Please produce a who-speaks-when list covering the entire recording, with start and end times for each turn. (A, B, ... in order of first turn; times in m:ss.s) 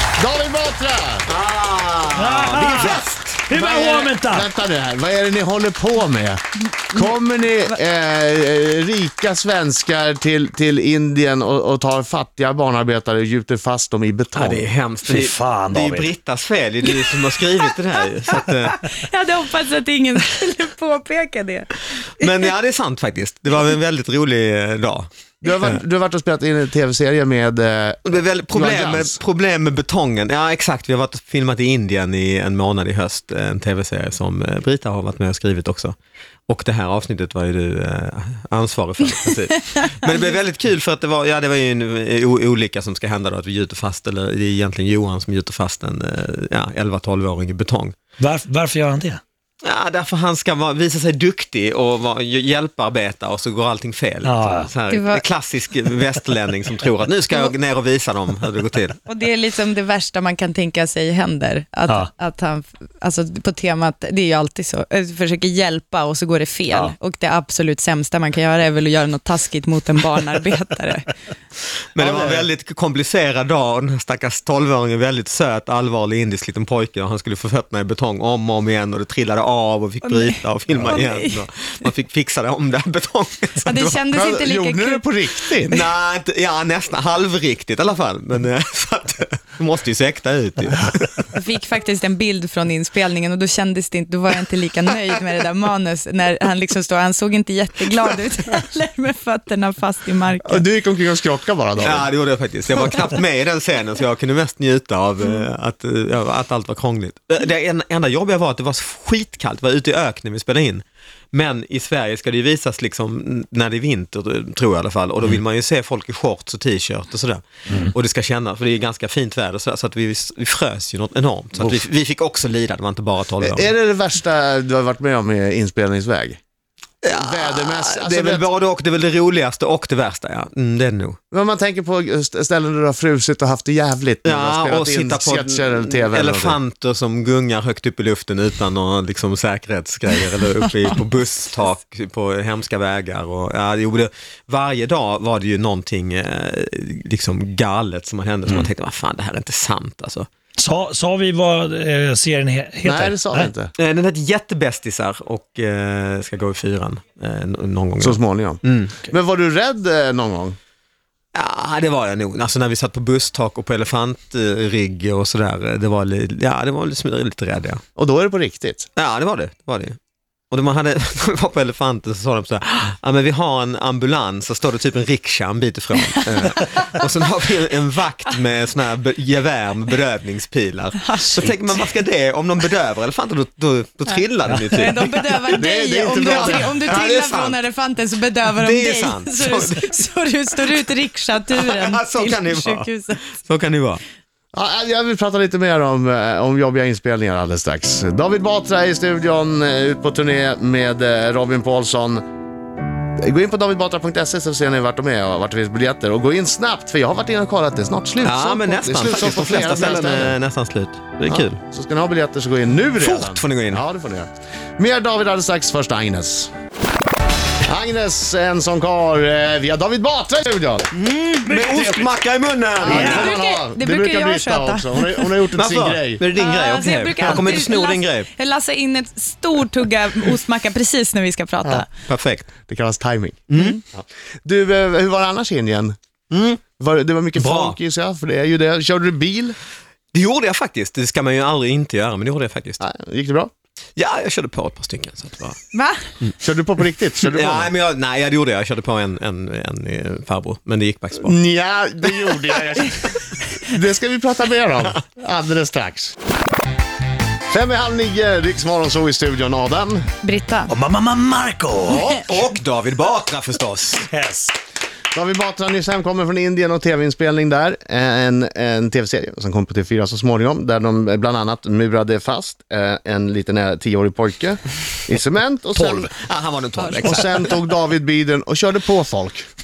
0:00.2-0:01.3 A
0:01.3-0:03.4 B
0:02.1-0:04.5 C
0:03.5-0:14.6 A
0:14.4-0:18.8 B
0:15.0-0:16.1 C
0:18.3-0:22.4 D
0:22.2-0:25.1 B
0:25.4-0:29.2 A
0:28.0-0:36.0 B
0:36.5-0:48.0 B
0:48.2-0:49.2 C
0:49.6-0:59.0 B
0:54.2-0:54.7 C
0:54.9-0:55.2 D
0:59.1-1:11.1 D
1:12.0-1:24.0 B
1:12.0-1:12.5 C
1:20.0-1:21.4 D
1:23.6-1:25.1 D
1:24.1-1:25.8 A
1:25.7-1:31.3 B
1:31.3-1:40.7 D
1:40.4-1:42.1 A
1:41.8-2:03.7 B
2:03.4-2:06.4 A
2:07.0-2:11.2 B
2:07.1-2:08.5 A
2:11.3-2:16.6 A
2:14.2-2:30.3 B
2:30.6-2:33.5 C
2:32.8-2:33.7 A
2:33.8-2:39.0 B
2:38.0-2:40.6 A
2:41.3-2:47.8 B
2:48.0-2:48.9 A
2:49.0-2:50.0 B
2:50.5-3:07.6 B
3:01.0-3:01.9 D
3:04.5-3:05.0 C
3:04.8-3:13.2 D
3:05.5-3:07.0 A
3:08.5-3:10.8 B
3:11.5-3:14.0 B
3:14.5-3:22.2 A
3:23.2-3:30.4 A
3:28.2-3:31.6 B
3:31.3-3:36.5 A
3:33.0-3:33.8 B
3:37.6-3:40.9 A
3:40.9-3:43.4 B
3:41.4-3:42.1 C
3:42.8-3:46.2 A
3:42.8-3:43.3 C
3:43.0-3:45.4 D
3:45.5-3:48.3 B
3:46.3-3:51.9 D
3:52.1-3:52.5 B
3:52.7-3:56.0 A
3:53.5-3:53.8 B
3:53.6-3:53.8 D
3:56.3-3:56.6 B
3:56.8-3:59.6 A
3:57.4-3:57.8 B
4:00.1-4:02.8 B
4:02.8-4:03.5 A
4:04.0-4:05.6 B
4:05.7-4:06.1 D
4:06.4-4:07.7 A
4:07.2-4:11.4 B
4:11.2-4:16.2 A
4:17.5-4:20.1 A
4:20.2-4:20.7 D
4:20.7-4:22.2 C
4:21.9-4:24.1 B
4:24.1-4:24.6 C
4:25.1-4:36.1 A
4:35.9-4:37.5 B
4:36.8-4:37.2 D
4:37.0-4:39.5 A